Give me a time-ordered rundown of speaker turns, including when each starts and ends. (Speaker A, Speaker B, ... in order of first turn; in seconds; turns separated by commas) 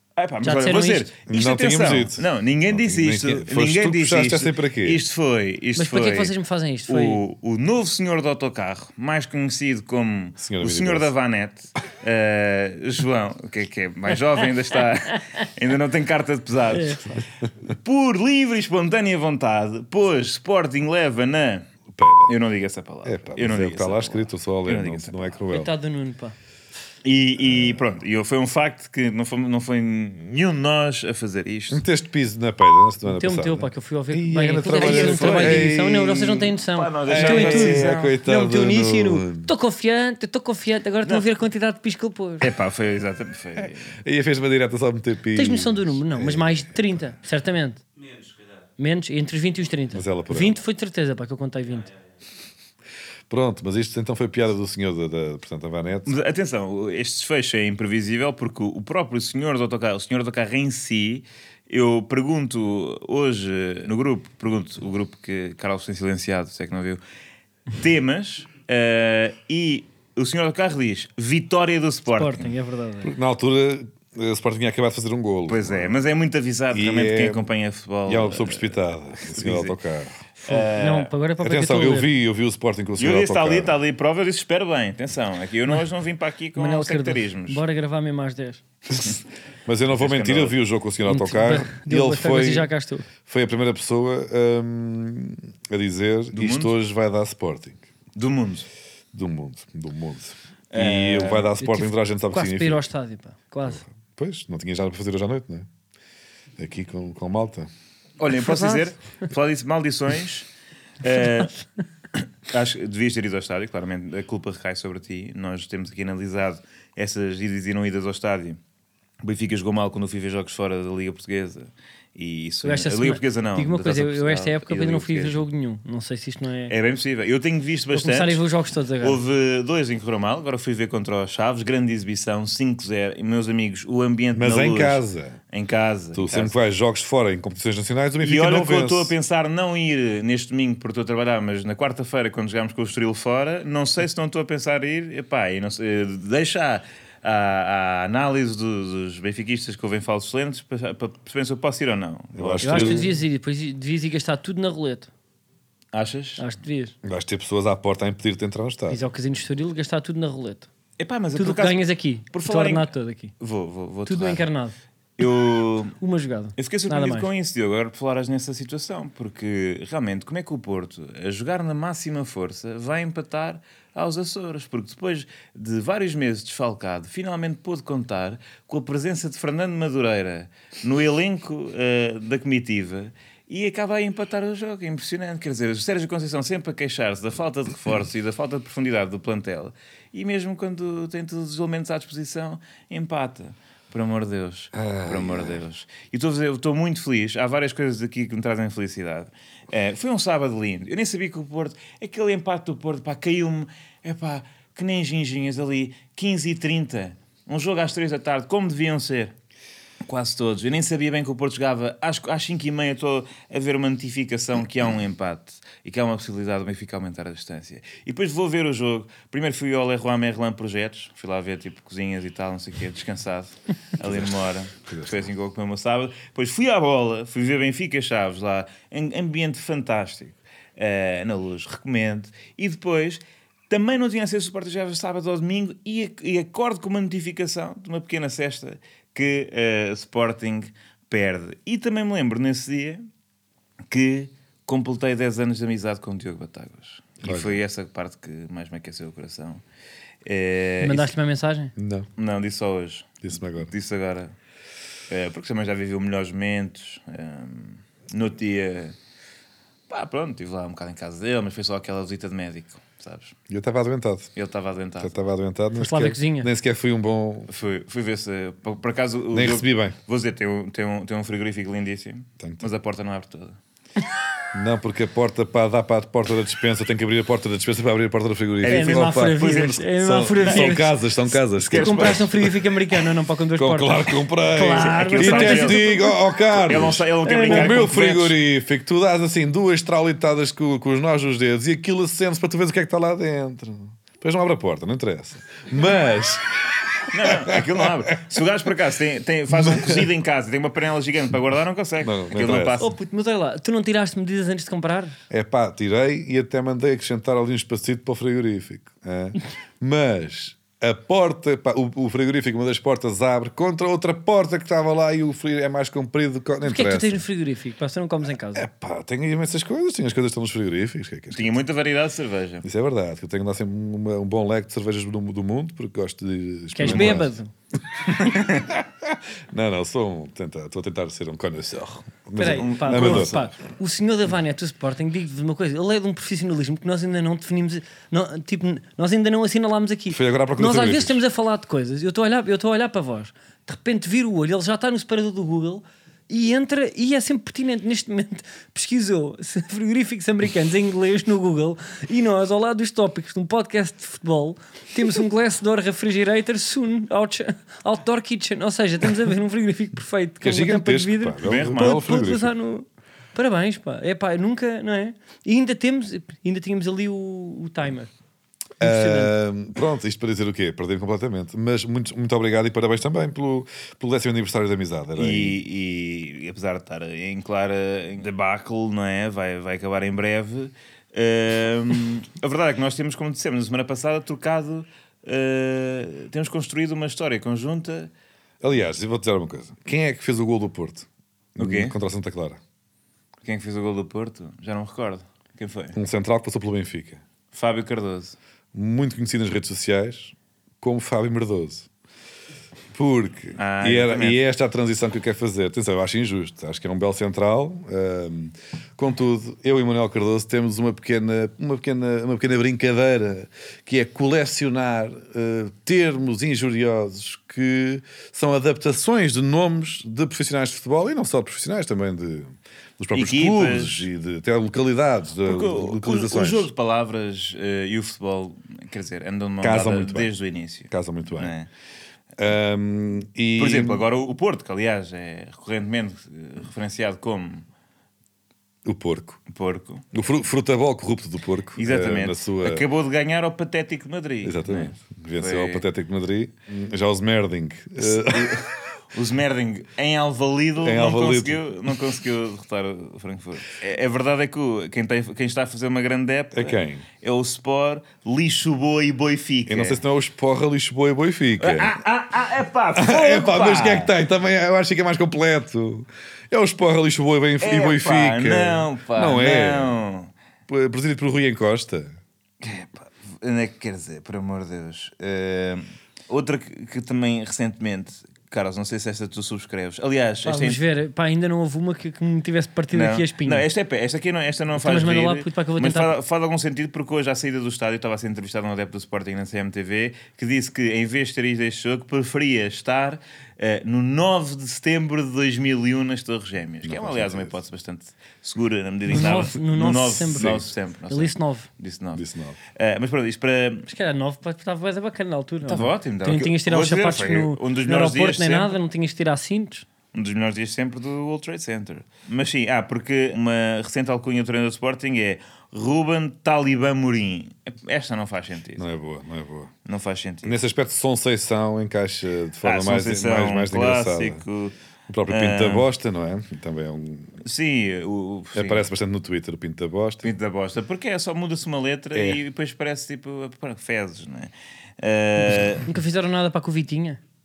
Speaker A: 0.2-6.3, Speaker B: 0.4-1.1, Speaker C: 1.3-5.0, Speaker B: 5.8-7.2, Speaker A: 6.9-21.6, Speaker C: 10.4-11.1, Speaker B: 16.7-17.0, Speaker C: 21.9-22.3, Speaker A: 22.2-25.4, Speaker C: 23.0-25.7, Speaker B: 25.5-26.3, Speaker A: 27.0-31.8, Speaker C: 27.4-27.8, Speaker C: 31.7-36.5, Speaker B: 33.0-42.5, Speaker A: 34.7-35.7, Speaker A: 36.7-38.2, Speaker C: 37.0-39.5, Speaker A: 42.4-43.9, Speaker C: 43.6-47.1, Speaker B: 45.3-47.8, Speaker B: 48.8-51.9, Speaker C: 49.9-50.6, Speaker C: 53.3-56.1, Speaker A: 56.0-67.0, Speaker A: 67.7-72.5, Speaker B: 72.1-73.1, Speaker C: 73.0-76.0, Speaker A: 75.5-79.8, Speaker C: 76.7-77.5, Speaker C: 78.1-80.1, Speaker A: 80.4-81.1, Speaker B: 80.5-82.1, Speaker C: 81.4-83.8, Speaker A: 83.0-87.6, Speaker B: 86.5-88.6, Speaker C: 88.9-92.7, Speaker A: 90.0-90.5, Speaker B: 91.0-93.1, Speaker C: 93.2-97.8, Speaker A: 96.3-96.7, Speaker A: 98.1-98.7, Speaker C: 99.1-102.8, Speaker A: 100.7-101.5, Speaker B: 101.6-103.8, Speaker C: 103.7-105.7, Speaker C: 106.6-107.7, Speaker A: 108.2-110.5, Speaker A: 111.0-111.6, Speaker A: 112.1-118.6, Speaker A: 119.2-125.4, Speaker B: 122.6-126.7, Speaker A: 126.7-128.4, Speaker B: 127.9-129.2, Speaker A: 129.0-136.6, Speaker C: 134.3-135.4, Speaker C: 136.1-139.1, Speaker A: 138.2-153.1, Speaker C: 152.3-153.1, Speaker B: 152.6-155.1, Speaker A: 155.9-156.4, Speaker B: 156.4-156.9, Speaker C: 157.0-159.0, Speaker B: 158.9-160.7, Speaker A: 161.0-164.5, Speaker B: 161.3-163.3, Speaker B: 164.1-164.7, Speaker A: 165.2-166.0, Speaker B: 166.0-167.3, Speaker A: 166.6-209.3, Speaker C: 194.7-195.6, Speaker A: 210.0-243.0, Speaker C: 224.0-224.3, Speaker C: 224.8-225.3, Speaker A: 243.9-249.6, Speaker C: 247.2-247.6, Speaker A: 250.2-251.1, Speaker B: 250.8-251.7, Speaker C: 251.8-252.1, Speaker A: 252.2-254.3, Speaker C: 253.2-253.7, Speaker A: 255.1-258.9, Speaker A: 259.9-263.3, Speaker C: 263.5-264.3, Speaker A: 264.4-265.1, Speaker C: 265.0-267.5, Speaker B: 265.8-266.5, Speaker A: 267.5-273.6, Speaker C: 269.3-270.0, Speaker C: 272.4-272.7, Speaker C: 274.5-282.5, Speaker A: 278.6-280.8, Speaker B: 278.7-281.0, Speaker A: 281.5-282.4, Speaker B: 281.6-286.2, Speaker C: 283.6-298.1, Speaker A: 284.8-285.9, Speaker A: 286.6-288.4, Speaker B: 287.2-287.9, Speaker A: 297.1-302.9, Speaker C: 299.5-300.1, Speaker C: 302.0-302.8, Speaker B: 302.8-305.1, Speaker C: 305.3-317.2, Speaker B: 316.6-318.6, Speaker C: 318.5-321.6, Speaker A: 321.3-322.6, Speaker C: 322.6-327.3, Speaker B: 326.7-327.5, Speaker A: 326.8-327.2, Speaker C: 328.1-333.4, Speaker B: 332.4-368.1, Speaker A: 332.4-333.4, Speaker C: 340.1-341.2, Speaker C: 360.4-362.5, Speaker A: 361.4-362.0, Speaker B: 368.8-369.3, Speaker C: 368.8-375.6, Speaker A: 375.1-388.1, Speaker C: 388.6-392.6, Speaker A: 391.6-391.9, Speaker A: 393.4-395.9, Speaker C: 395.9-397.2, Speaker A: 397.5-398.4, Speaker C: 398.7-401.9, Speaker C: 402.9-426.7, Speaker A: 403.6-404.4, Speaker A: 423.1-424.1, Speaker A: 425.4-431.7, Speaker C: 429.6-430.3, Speaker C: 430.9-431.5, Speaker C: 432.4-434.0, Speaker A: 433.6-437.6, Speaker C: 438.8-439.4, Speaker A: 439.5-440.0, Speaker C: 440.1-442.8, Speaker A: 441.8-445.8, Speaker C: 444.4-448.6, Speaker A: 448.0-460.0, Speaker C: 450.8-451.6, Speaker C: 456.5-457.1, Speaker C: 459.7-462.0, Speaker A: 461.6-464.1, Speaker C: 462.9-469.9, Speaker A: 467.6-470.3, Speaker C: 470.7-472.2, Speaker A: 472.6-480.8, Speaker B: 480.4-483.6, Speaker A: 482.9-503.9, Speaker B: 484.8-486.1, Speaker C: 496.8-497.5, Speaker B: 499.1-501.7, Speaker C: 502.1-502.6, Speaker B: 503.9-509.9, Speaker A: 505.6-508.7, Speaker A: 510.1-518.8, Speaker C: 518.8-519.7, Speaker A: 519.9-520.5, Speaker C: 520.4-524.4, Speaker A: 522.6-524.7, Speaker C: 525.1-527.4, Speaker A: 525.3-525.9, Speaker A: 527.4-528.8, Speaker C: 528.5-530.3, Speaker A: 530.2-535.9, Speaker C: 532.1-532.4, Speaker B: 535.5-537.2